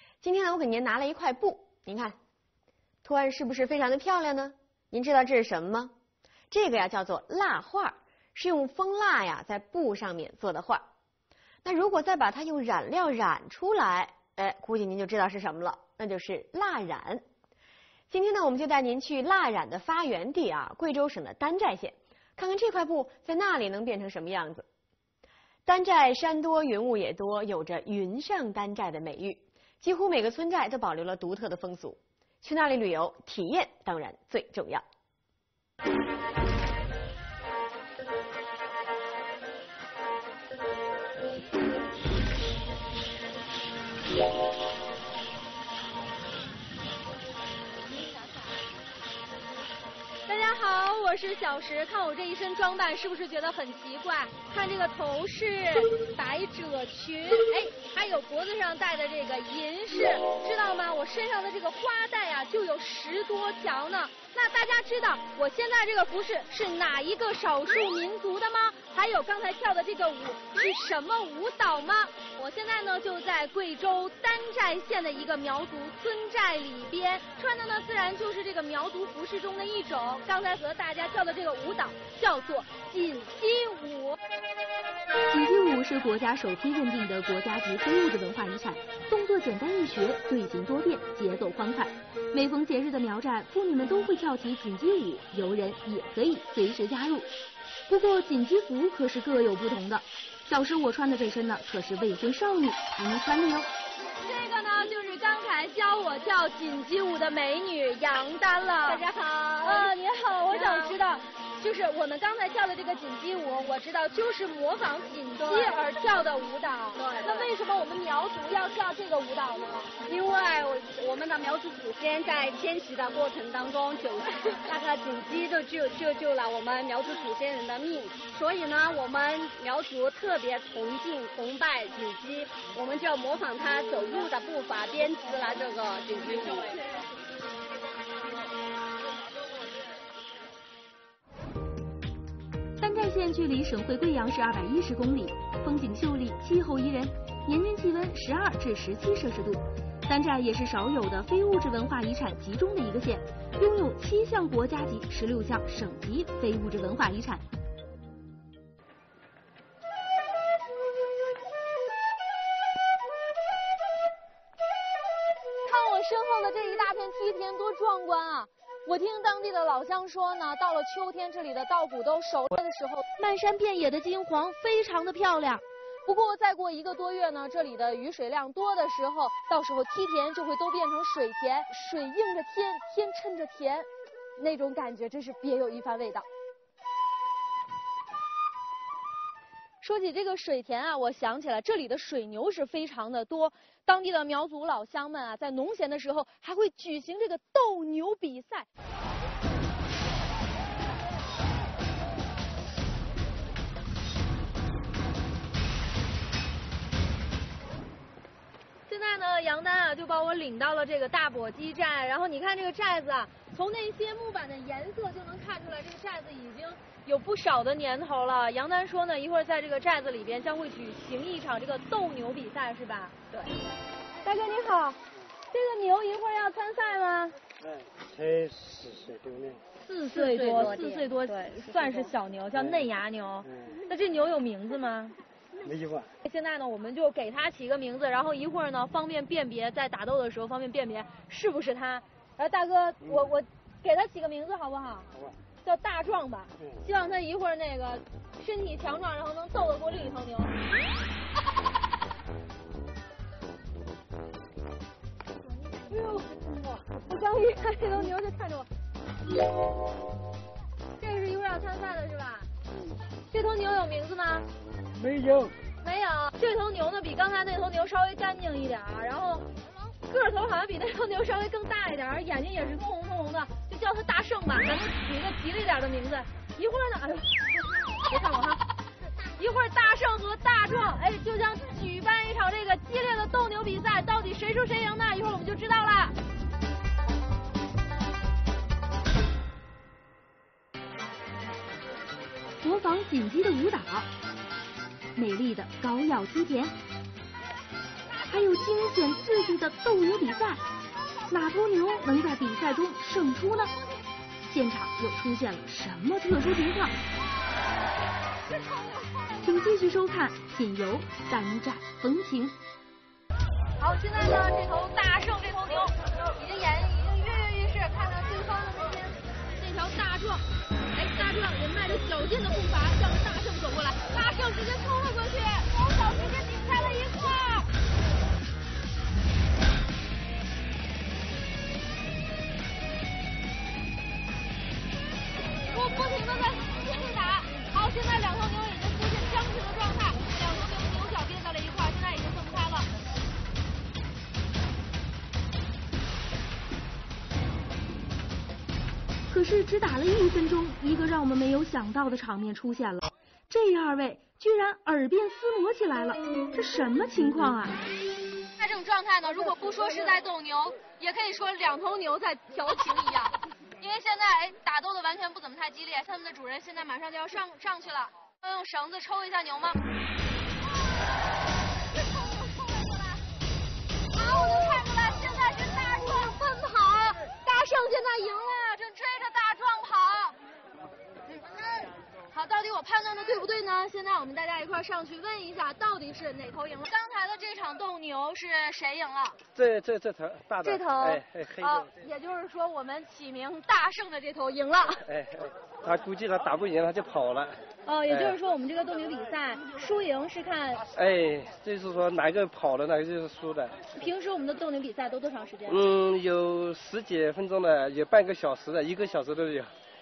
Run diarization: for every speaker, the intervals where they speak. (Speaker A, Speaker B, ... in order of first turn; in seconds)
Speaker A: 0.2-2.2, 3.0-5.9, 6.5-10.9, 11.6-17.2, 18.1-24.6, 25.6-34.8
Speaker B: 50.2-84.2, 104.2-109.0, 109.6-119.9, 165.7-186.2, 189.8-198.7, 208.9-223.1, 224.2-225.0, 225.5-227.4, 229.8-235.2, 236.2-245.1, 245.6-250.5, 255.9-258.7, 261.0-262.5, 263.3-264.5, 265.8-269.5, 270.1-278.6, 279.3-286.1, 313.8-327.7, 335.7-342.9, 358.6-369.8, 372.4-373.0, 374.1-380.4, 381.3-389.4, 390.6-395.1, 397.9-400.8, 403.9-405.8
Speaker C: 85.3-97.3, 97.9-103.7, 142.8-157.4, 292.6-294.1, 295.2-296.8, 298.3-300.6, 301.3-303.8, 304.4-307.0, 309.4-312.6, 349.3-357.8
Speaker D: 108.8-109.9, 110.5-111.0, 115.4-115.8, 116.9-117.5, 120.0-136.8, 230.0-232.1
Speaker E: 228.7-229.1, 235.7-236.0, 265.1-265.5, 389.6-391.9, 395.1-397.6, 398.1-398.4, 400.9-403.8, 405.7-409.7